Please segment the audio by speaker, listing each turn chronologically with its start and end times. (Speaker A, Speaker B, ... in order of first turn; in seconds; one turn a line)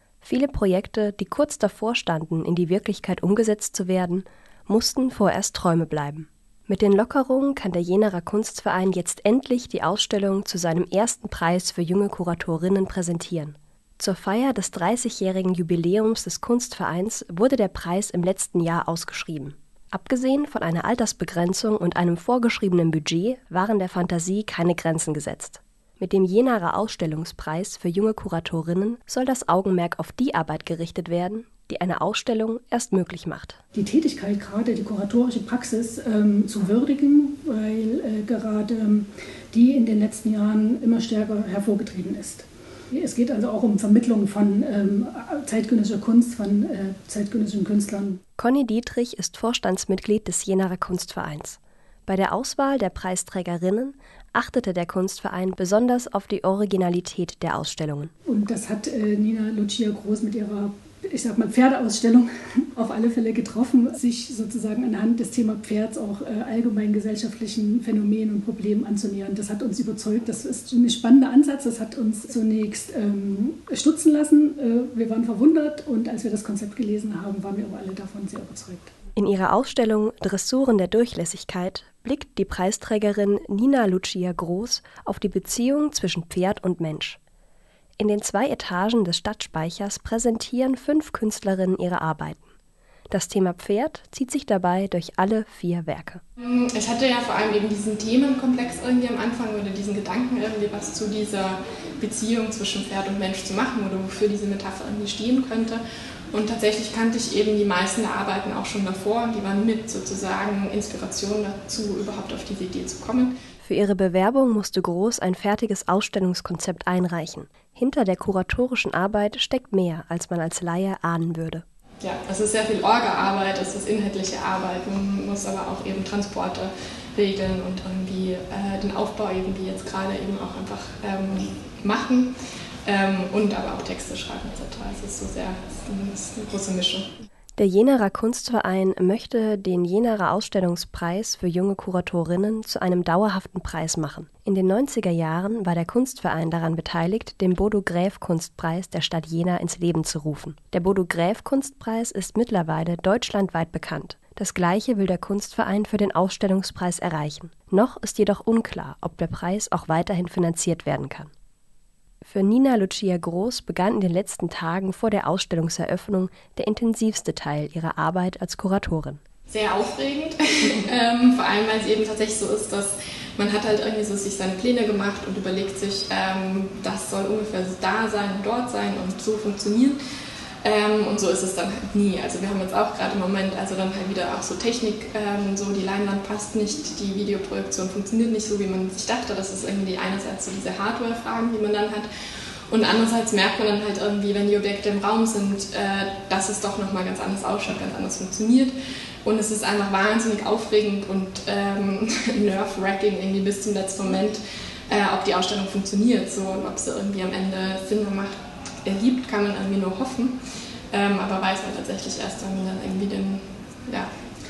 Speaker A: 0.2-33.6
Speaker B: 33.7-48.2
Speaker A: 48.4-58.1
Speaker B: 58.2-78.9
Speaker A: 79.2-87.2
Speaker A: 88.0-92.5
Speaker A: 93.1-96.2
Speaker C: 96.4-113.3
Speaker A: 113.6-121.6
Speaker C: 122.0-132.3
Speaker C: 132.8-137.1
Speaker A: 137.6-161.3
Speaker A: 162.2-169.2
Speaker C: 169.5-180.0
Speaker C: 180.6-192.1
Speaker C: 192.7-198.7
Speaker C: 199.2-210.4
Speaker C: 210.9-214.1